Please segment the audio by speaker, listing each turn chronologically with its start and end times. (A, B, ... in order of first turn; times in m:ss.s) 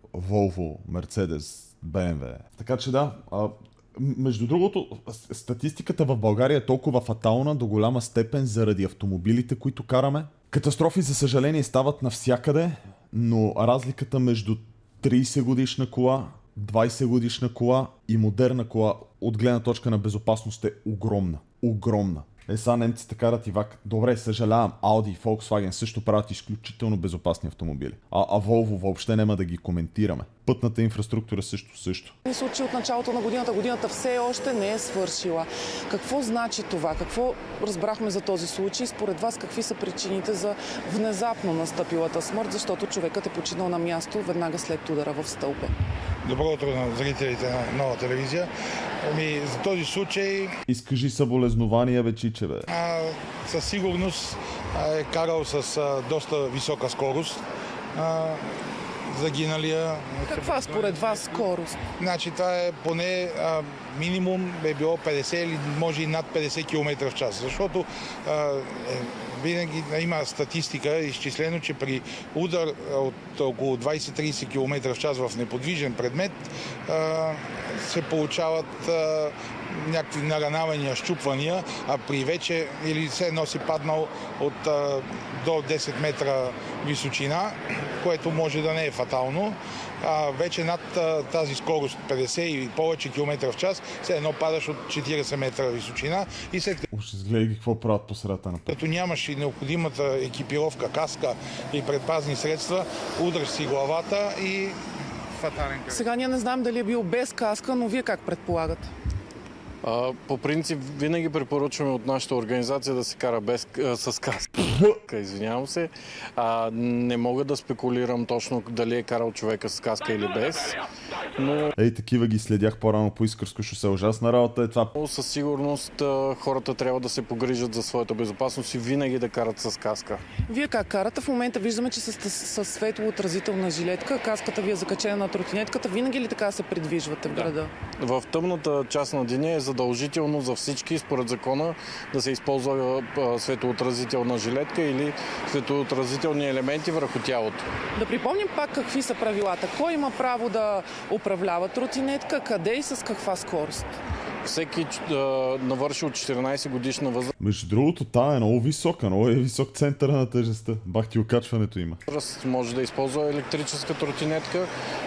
0:00.1-0:32.1 A
0:32.2-0:45.7 B
0:46.2-0:48.5 C
0:49.0-0:50.5 C
0:50.7-0:52.7 A
0:52.7-0:57.4 C
0:58.0-1:36.8 C
1:00.3-1:01.8 B
1:36.9-1:38.8 A
1:38.7-1:44.8 C
1:45.3-1:46.1 C
1:45.9-1:48.9 B
1:49.8-2:00.8 D
2:01.4-2:01.7 D
2:01.8-2:04.9 A
2:05.0-2:10.2 D
2:10.5-2:17.7 B
2:17.3-2:27.6 D
2:28.0-2:33.9 B
2:34.4-2:37.3 D
2:37.4-2:42.0 A
2:42.1-2:44.7 D